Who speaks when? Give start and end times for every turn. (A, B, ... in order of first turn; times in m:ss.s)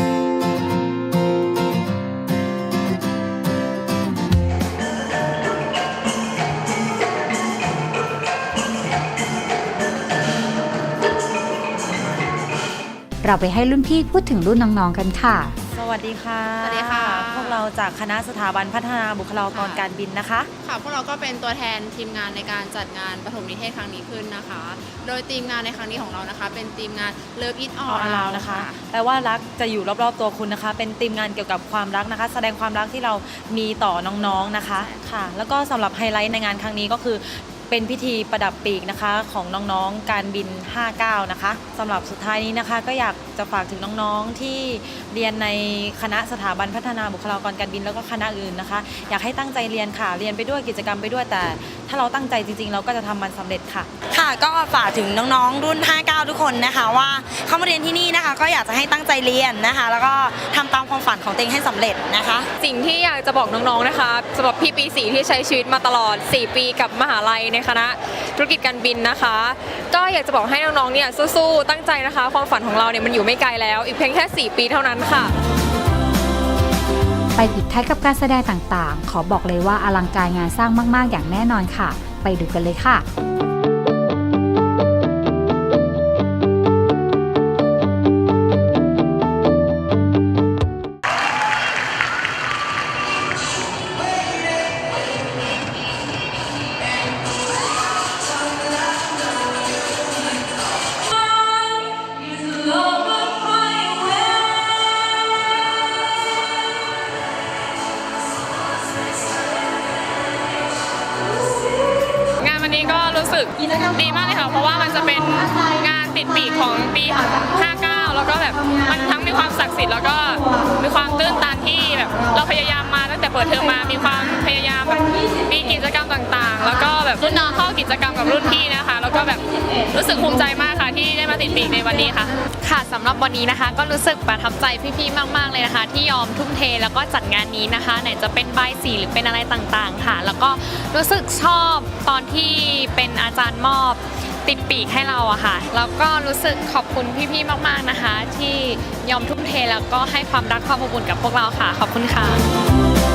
0:13.2-0:15.5 A
0:15.7-0:20.5 B
0:16.6-0:17.6 C
0:19.5-0:19.8 C
0:20.6-0:28.8 C
0:27.8-0:53.9 B
0:54.1-1:02.4 D
1:02.6-1:15.3 E
1:17.4-1:23.0 A
1:52.4-2:12.4 E
2:12.6-2:32.4 F